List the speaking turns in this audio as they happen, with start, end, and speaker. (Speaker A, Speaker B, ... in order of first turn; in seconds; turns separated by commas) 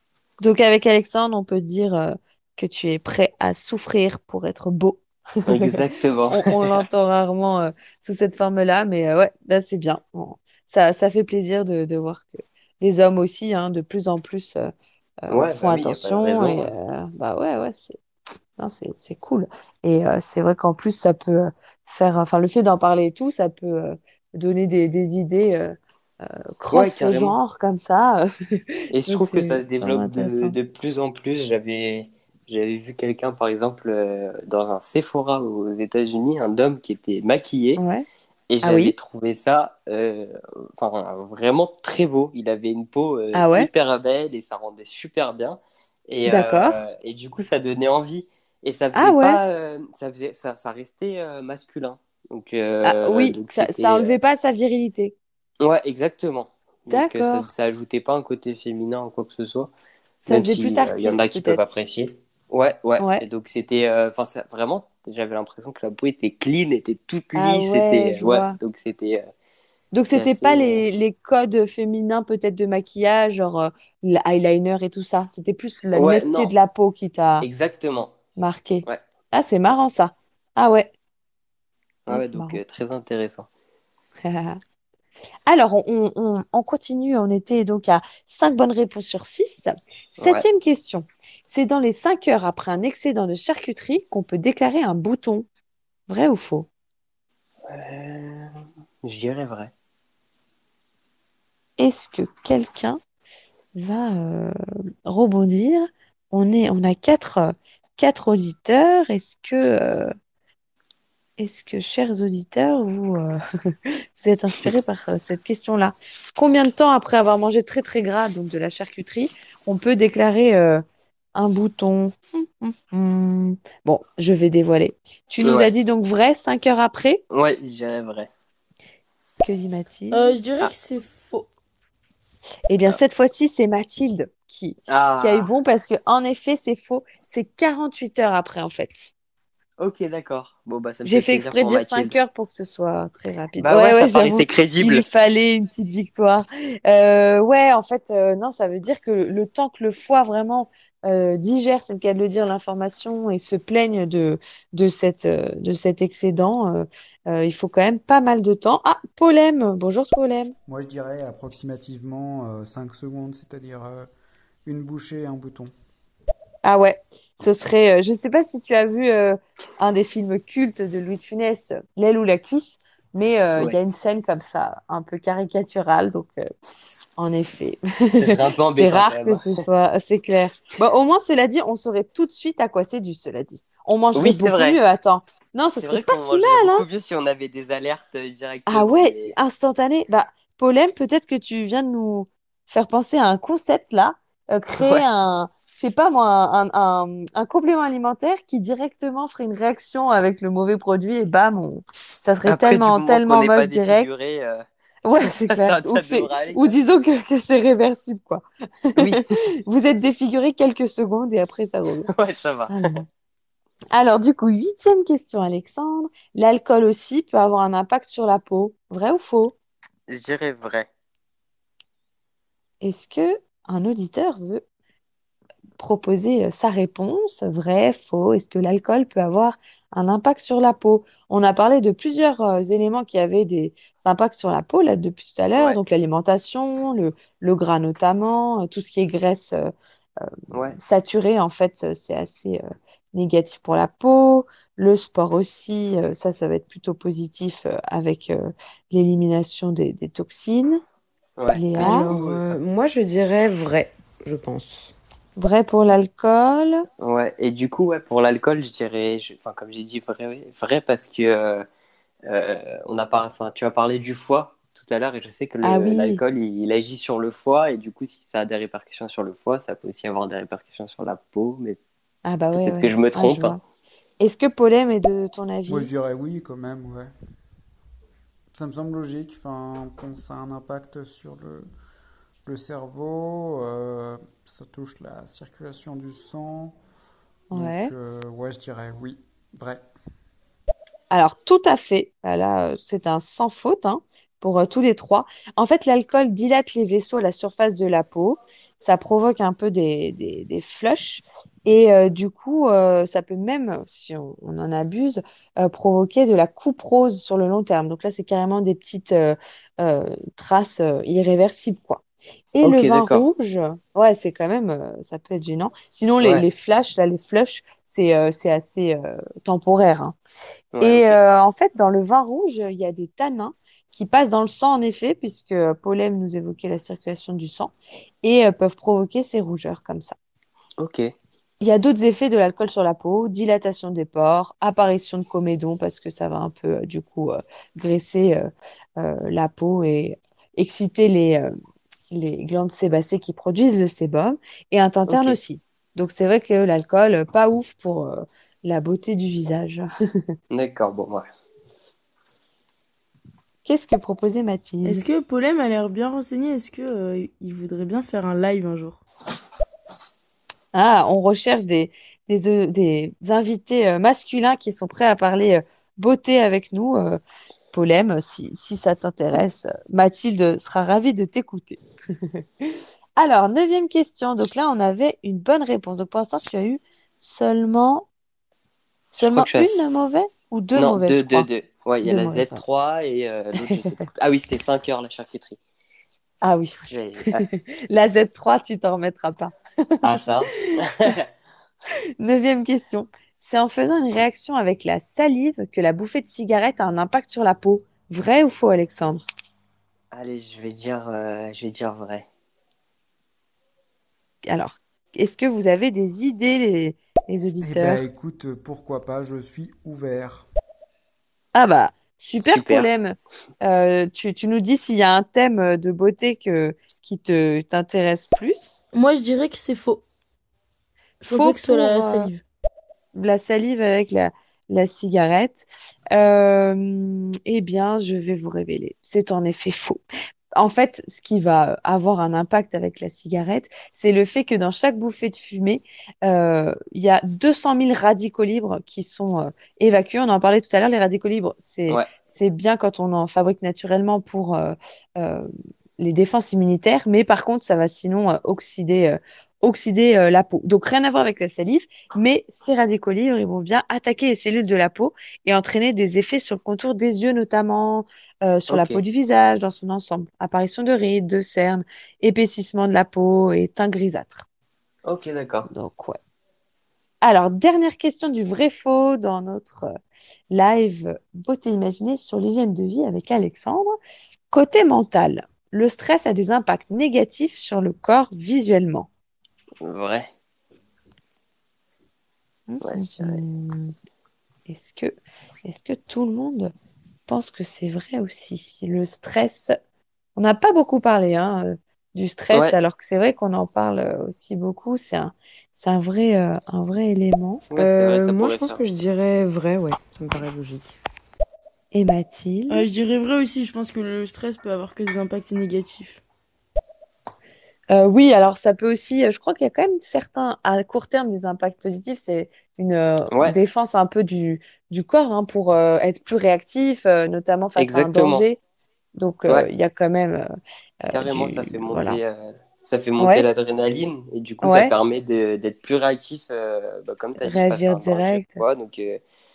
Speaker A: 0.4-5.8, Speaker B: 5.5-6.8, Speaker A: 6.3-14.7, Speaker A: 15.3-18.0, Speaker B: 15.3-16.7, Speaker A: 18.6-30.6, Speaker B: 26.7-27.4, Speaker B: 28.9-37.8, Speaker A: 37.8-38.0, Speaker B: 38.5-54.1, Speaker A: 38.6-38.9, Speaker A: 43.3-43.7, Speaker A: 46.3-46.8, Speaker A: 48.9-49.4, Speaker A: 52.8-55.1, Speaker B: 55.6-59.7, Speaker A: 56.9-57.5, Speaker A: 60.2-61.7, Speaker B: 60.3-69.3, Speaker A: 63.0-63.2, Speaker A: 67.3-68.6, Speaker A: 69.9-77.5, Speaker B: 70.1-70.8, Speaker B: 75.9-76.5, Speaker B: 77.4-78.2, Speaker A: 78.4-80.9, Speaker B: 82.1-83.5, Speaker A: 82.1-82.6, Speaker A: 84.2-84.6, Speaker A: 85.5-95.5, Speaker B: 90.2-90.5, Speaker A: 96.1-96.7, Speaker B: 97.7-99.7, Speaker A: 101.8-103.0, Speaker A: 103.7-104.5, Speaker A: 105.1-110.1, Speaker A: 111.4-113.4, Speaker A: 113.9-120.8, Speaker A: 121.3-127.2, Speaker B: 125.4-125.7, Speaker B: 127.3-128.3, Speaker A: 129.4-130.7, Speaker C: 130.1-131.5, Speaker A: 132.7-139.1, Speaker B: 134.9-135.5, Speaker B: 139.8-142.2, Speaker A: 141.1-160.6, Speaker B: 143.6-145.0, Speaker D: 160.7-164.1, Speaker D: 164.6-165.7, Speaker A: 166.6-176.4, Speaker A: 177.2-186.9, Speaker B: 178.1-179.6, Speaker B: 184.1-184.8, Speaker B: 185.8-189.3, Speaker A: 188.7-204.1, Speaker B: 194.8-195.1, Speaker B: 202.5-204.7, Speaker A: 205.1-208.4, Speaker B: 205.2-206.7, Speaker B: 209.0-209.4, Speaker A: 209.0-212.1, Speaker B: 212.1-212.9, Speaker A: 212.7-213.1, Speaker A: 213.9-219.6, Speaker B: 220.1-220.9, Speaker A: 222.8-224.6, Speaker A: 225.8-250.8, Speaker B: 251.4-252.6, Speaker A: 251.5-252.1, Speaker E: 251.8-254.9, Speaker A: 255.4-256.8, Speaker B: 257.0-261.6, Speaker B: 262.3-271.8, Speaker A: 265.6-266.2, Speaker A: 272.2-273.6, Speaker B: 272.6-273.6, Speaker A: 274.2-275.9, Speaker D: 275.7-277.1, Speaker D: 278.5-281.7, Speaker D: 282.4-286.8, Speaker A: 287.5-287.9, Speaker D: 287.5-289.9, Speaker A: 291.1-312.0, Speaker A: 312.5-320.2, Speaker B: 312.6-313.2, Speaker B: 316.2-316.5, Speaker B: 320.7-321.2, Speaker A: 320.8-330.2, Speaker B: 330.8-331.1, Speaker A: 331.6-341.5, Speaker A: 342.1-349.8, Speaker B: 345.1-345.4, Speaker B: 350.5-351.3, Speaker A: 353.6-355.1, Speaker C: 354.8-359.0, Speaker A: 360.7-367.2, Speaker A: 367.7-371.8, Speaker A: 372.3-378.1, Speaker A: 379.1-381.5, Speaker B: 379.2-380.0, Speaker B: 380.7-385.6, Speaker A: 382.0-382.6, Speaker A: 383.6-383.9, Speaker A: 386.4-386.8, Speaker B: 386.9-387.4, Speaker A: 387.4-390.2, Speaker B: 390.0-391.3, Speaker A: 392.2-399.3, Speaker B: 400.1-402.3, Speaker A: 404.5-408.1, Speaker D: 407.6-410.5, Speaker A: 411.6-418.8, Speaker B: 412.4-412.9, Speaker C: 418.9-420.0, Speaker C: 421.2-422.4, Speaker A: 421.2-422.3, Speaker A: 423.1-430.0, Speaker A: 430.6-464.5, Speaker B: 458.7-459.0, Speaker B: 465.1-465.7, Speaker A: 465.7-466.2, Speaker A: 467.2-469.9, Speaker A: 470.5-474.0, Speaker A: 474.5-479.1, Speaker B: 479.8-480.3, Speaker A: 482.7-483.9, Speaker B: 482.8-483.4, Speaker A: 484.7-485.1, Speaker A: 485.6-486.7, Speaker A: 487.3-489.7, Speaker A: 490.4-497.7, Speaker B: 497.7-498.8, Speaker E: 497.8-501.0, Speaker A: 501.9-502.9, Speaker C: 502.7-506.2, Speaker A: 507.9-518.6, Speaker B: 517.8-518.4, Speaker A: 519.2-520.5, Speaker A: 521.1-522.2, Speaker B: 521.1-529.2, Speaker A: 523.2-523.5, Speaker A: 524.6-524.9, Speaker A: 527.4-528.6